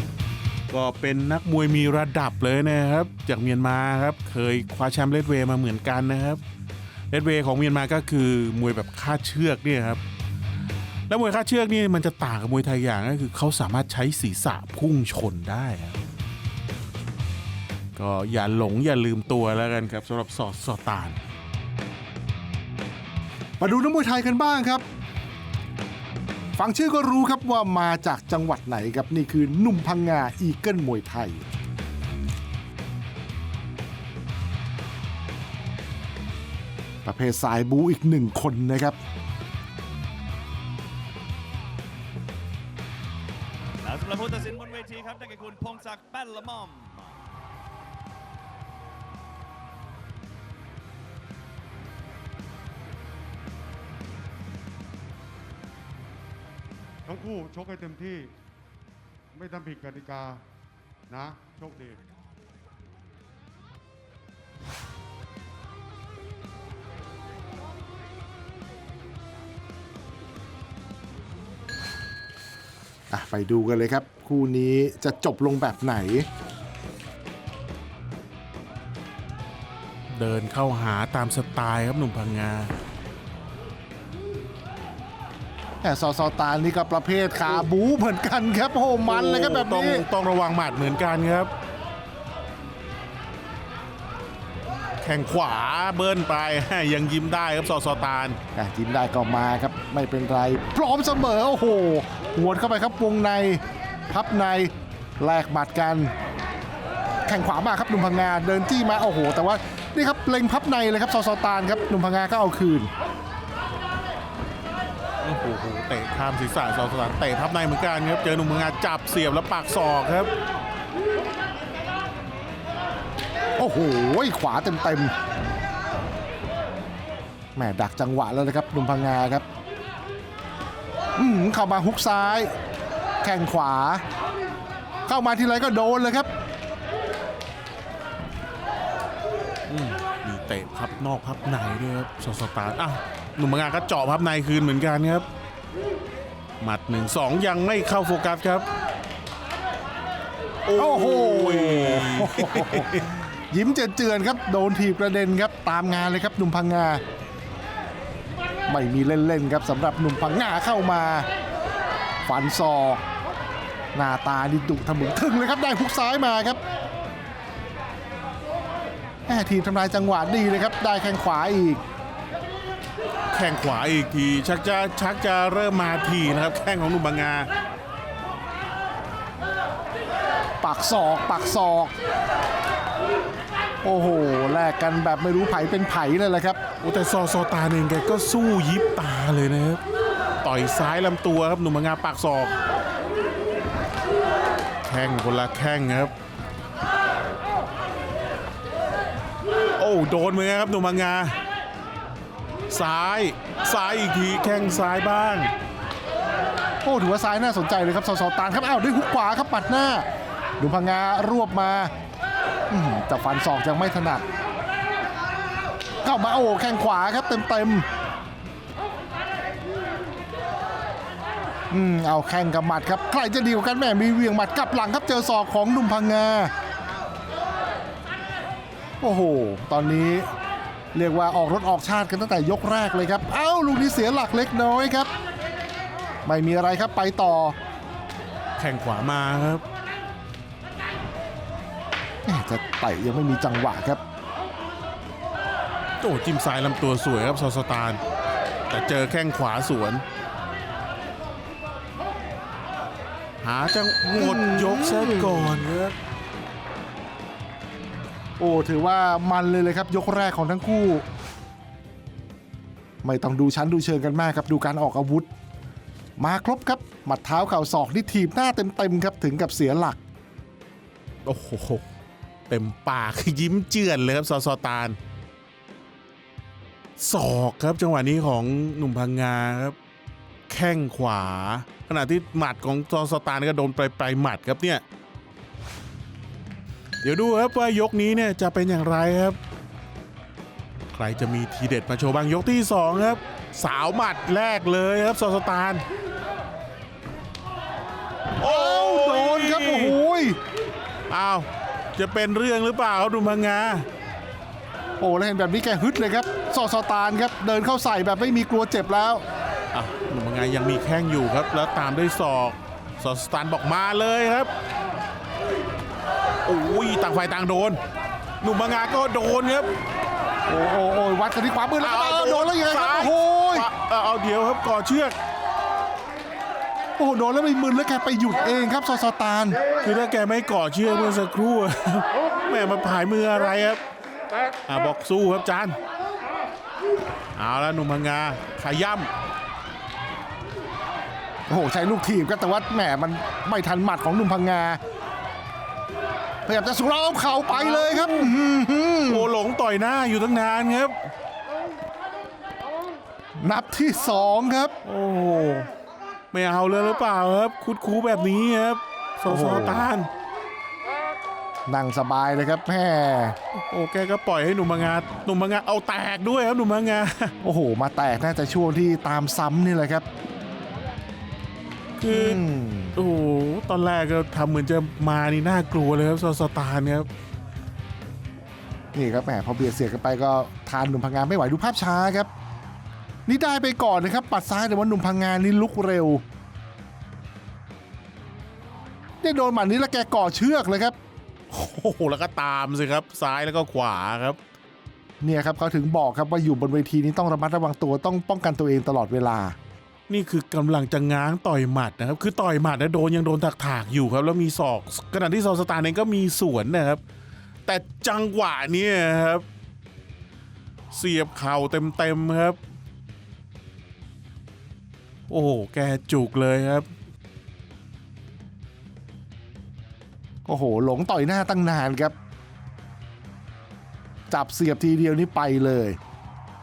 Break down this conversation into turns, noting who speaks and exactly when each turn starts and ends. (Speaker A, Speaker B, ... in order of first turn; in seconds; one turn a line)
Speaker A: 0.7-6.4
Speaker A: 7.1-10.0
Speaker A: 11.1-16.0
Speaker A: 18.0-21.2
Speaker B: 23.6-24.8
Speaker B: 26.6-31.4
Speaker B: 37.0-39.0
Speaker C: 43.8-47.1
Speaker D: 57.0-58.3
Speaker D: 59.3-60.5
Speaker D: 61.1-62.0
Speaker B: 73.1-76.3
Speaker A: 80.1-82.7
Speaker B: 85.8-90.1
Speaker A: 89.1-91.5
Speaker A: 95.0-98.4
Speaker B: 98.5-106.1
Speaker B: 107.3-112.9
Speaker A: 115.2-120.3
Speaker B: 123.6-125.1
Speaker B: 127.5-129.4
Speaker B: 131.2-132.5
Speaker B: 133.2-134.0
Speaker B: 135.1-136.3
Speaker A: 139.7-145.3
Speaker A: 146.6-148.7
Speaker A: 150.7-153.1
Speaker B: 150.8-157.0
Speaker B: 158.7-161.3
Speaker B: 162.2-163.0
Speaker B: 163.9-166.6
Speaker B: 169.3-171.8
Speaker A: 173.3-177.5
Speaker B: 180.6-181.9
Speaker B: 183.8-186.6
Speaker A: 186.8-189.8
Speaker A: 190.4-192.6
Speaker A: 194.9-196.1
Speaker A: 199.8-201.4
Speaker A: 202.7-205.5
Speaker B: 206.8-210.1
Speaker B: 210.6-211.9
Speaker B: 212.7-214.2
Speaker B: 216.0-217.9
Speaker B: 221.7-226.5
Speaker B: 229.0-230.3
Speaker B: 230.9-235.1
Speaker B: 236.2-237.6
Speaker A: 238.6-239.6
Speaker B: 242.2-244.0
Speaker A: 246.0-248.0
Speaker A: 248.7-250.0
Speaker A: 253.4-255.9
Speaker B: 254.2-255.6
Speaker B: 258.4-261.0
Speaker B: 263.0-265.3
Speaker B: 266.2-270.0
Speaker A: 271.2-271.9
Speaker A: 272.5-275.0
Speaker A: 277.0-279.8
Speaker A: 280.5-284.8
Speaker A: 287.0-289.4
Speaker A: 290.9-295.8
Speaker A: 298.4-300.0
Speaker B: 298.4-300.4
Speaker A: 301.1-303.9
Speaker B: 305.0-309.2
Speaker A: 309.7-314.5
Speaker A: 316.5-317.8
Speaker A: 318.4-319.7
Speaker B: 320.5-323.7
Speaker A: 321.8-325.1
Speaker B: 327.0-329.6
Speaker A: 329.8-333.8
Speaker A: 334.7-335.8
Speaker A: 337.4-339.1
Speaker B: 341.5-344.8
Speaker B: 346.5-349.3
Speaker A: 347.5-348.3
Speaker A: 349.1-351.0
Speaker B: 353.4-354.8
Speaker A: 354.8-355.7
Speaker A: 356.3-360.1
Speaker B: 359.3-359.9
Speaker B: 361.7-363.4
Speaker A: 363.5-367.3
Speaker B: 367.4-370.1
Speaker A: 372.0-372.4
Speaker B: 372.1-373.0
Speaker A: 372.9-377.1
Speaker B: 378.9-382.3
Speaker B: 383.3-386.2
Speaker B: 389.2-390.9
Speaker A: 391.5-394.4
Speaker B: 395.2-399.6
Speaker A: 400.1-407.0
Speaker A: 407.7-409.4
Speaker A: 410.9-412.6
Speaker A: 415.3-416.9
Speaker B: 420.5-422.1
Speaker B: 424.3-426.0